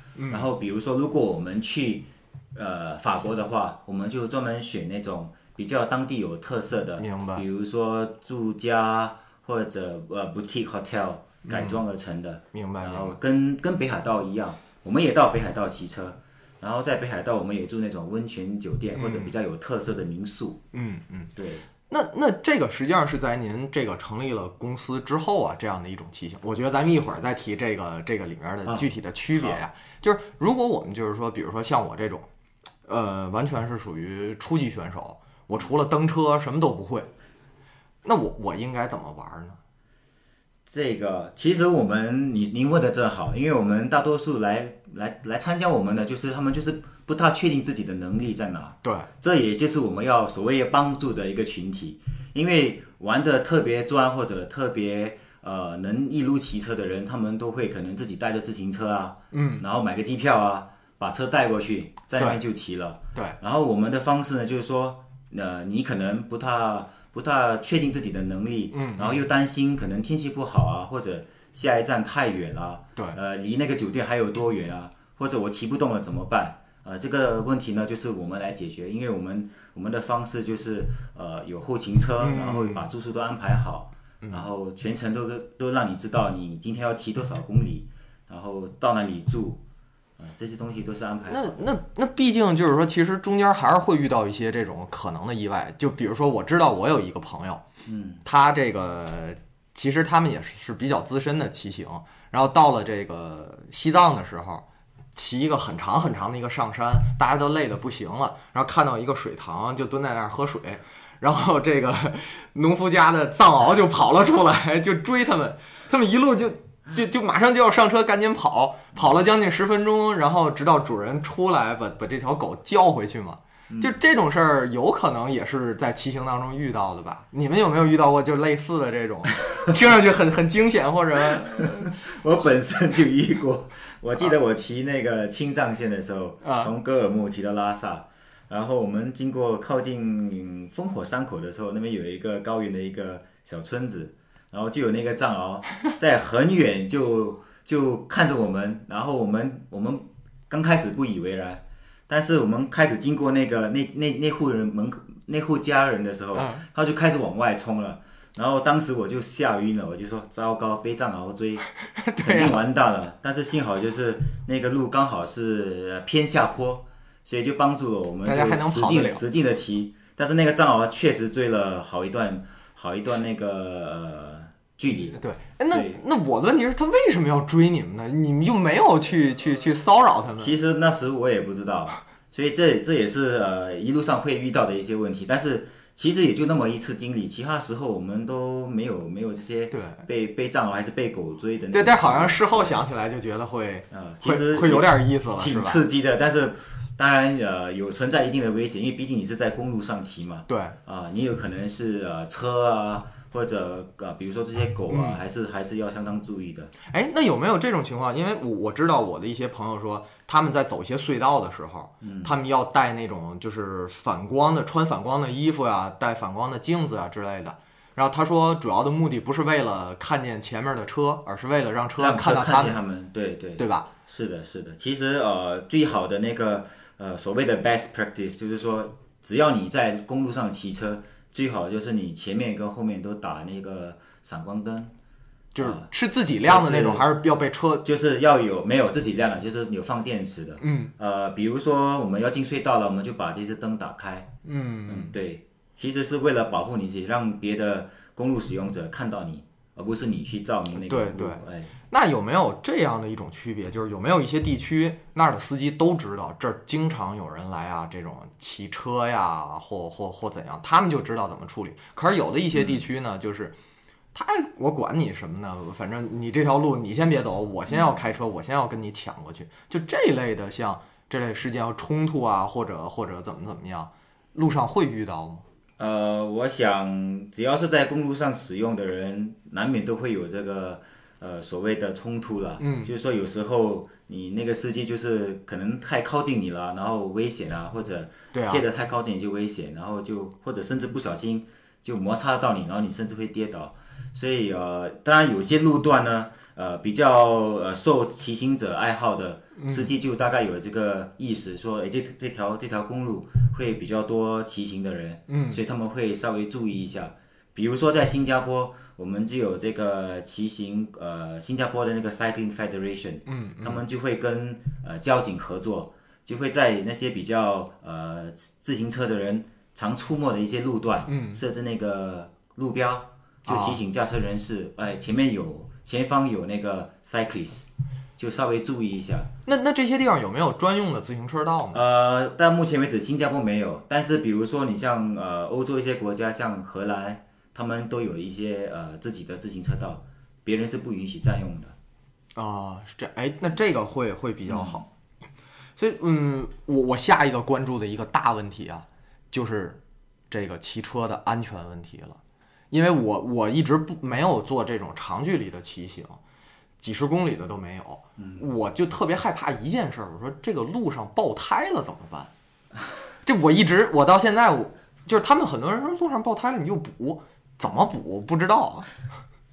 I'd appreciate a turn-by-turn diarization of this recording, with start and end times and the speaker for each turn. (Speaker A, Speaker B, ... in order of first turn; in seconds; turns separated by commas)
Speaker A: 0.2-0.5, Speaker B: 0.3-20.6, Speaker A: 7.0-7.5, Speaker A: 11.5-11.8, Speaker A: 12.5-13.2, Speaker A: 18.9-19.3, Speaker A: 20.7-21.3, Speaker B: 21.4-21.7, Speaker A: 21.9-32.3, Speaker B: 28.7-29.6, Speaker A: 32.9-37.1, Speaker A: 38.0-39.6, Speaker B: 40.7-89.6, Speaker A: 48.8-49.1, Speaker A: 59.3-59.6, Speaker A: 68.7-69.2, Speaker A: 82.2-82.9, Speaker A: 84.2-84.5, Speaker B: 90.2-91.6, Speaker A: 91.3-97.6, Speaker B: 97.8-98.2, Speaker A: 98.2-104.6, Speaker A: 105.2-132.0, Speaker B: 123.7-124.0, Speaker B: 131.4-161.7, Speaker A: 136.4-136.7, Speaker A: 156.3-156.7, Speaker A: 162.0-162.6, Speaker B: 162.2-176.0, Speaker A: 168.2-169.2, Speaker A: 175.1-180.6, Speaker B: 180.4-192.9, Speaker A: 189.7-190.0, Speaker A: 191.7-195.8, Speaker B: 193.9-206.7, Speaker A: 200.5-200.8, Speaker A: 204.9-205.2, Speaker A: 206.9-222.8, Speaker B: 212.0-212.4, Speaker B: 222.0-234.9, Speaker A: 223.6-223.9, Speaker A: 235.6-237.8, Speaker B: 235.6-235.9, Speaker B: 236.4-237.1, Speaker B: 237.8-244.3, Speaker A: 240.6-240.9, Speaker A: 244.4-245.1, Speaker B: 244.9-251.7, Speaker A: 250.8-263.5, Speaker B: 262.5-262.8, Speaker A: 264.1-275.4, Speaker B: 275.8-327.7, Speaker A: 282.6-282.9, Speaker A: 288.3-288.6, Speaker A: 299.6-299.9, Speaker A: 305.3-305.6, Speaker A: 313.3-313.8, Speaker A: 321.1-321.4, Speaker A: 323.5-323.8, Speaker B: 328.2-329.3, Speaker A: 329.5-331.8, Speaker B: 331.7-341.8, Speaker A: 342.4-344.9, Speaker B: 344.5-344.9, Speaker A: 345.8-349.8, Speaker A: 350.3-352.2, Speaker A: 352.7-356.2, Speaker A: 356.8-362.3, Speaker B: 358.2-358.4, Speaker A: 363.2-368.9